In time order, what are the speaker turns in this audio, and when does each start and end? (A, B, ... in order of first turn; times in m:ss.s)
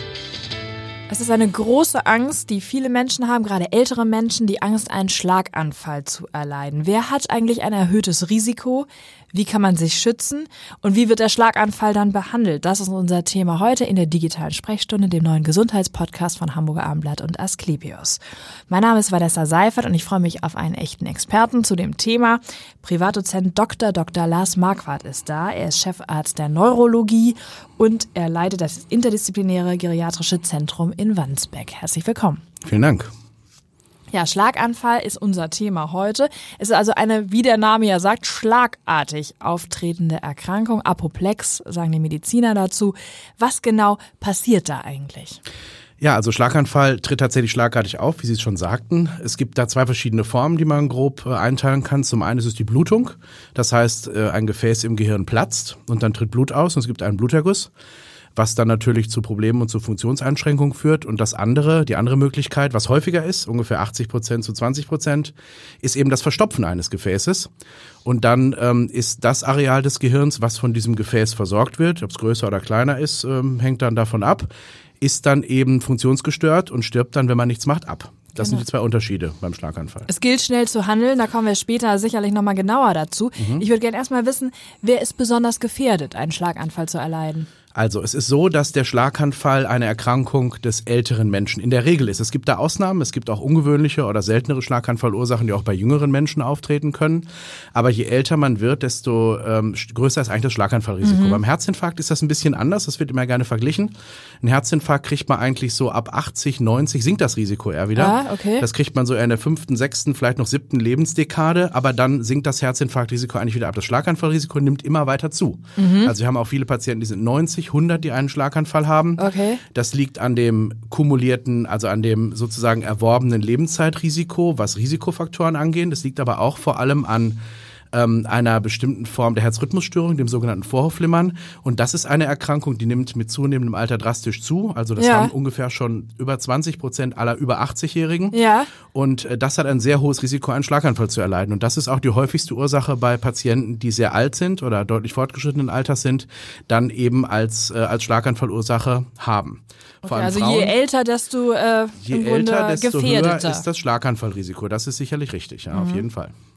0:01.1-0:32.4 A
0:32.6-0:33.1 B
0:34.1-0:45.4 A
0:46.0-0:57.7 B
0:58.4-1:07.5 B
1:08.0-1:14.5 B
1:15.0-1:20.1 B
1:18.4-1:18.6 A
1:20.1-1:27.5 A
1:23.4-1:23.6 B
1:27.7-2:07.4 B
1:41.0-1:41.4 A
1:48.0-1:48.7 A
1:55.8-1:56.1 A
1:59.2-1:59.6 A
2:07.9-2:30.8 B
2:15.0-2:15.3 A
2:18.3-2:18.7 A
2:30.0-2:33.6 A
2:32.0-2:36.3 B
2:35.7-2:36.0 A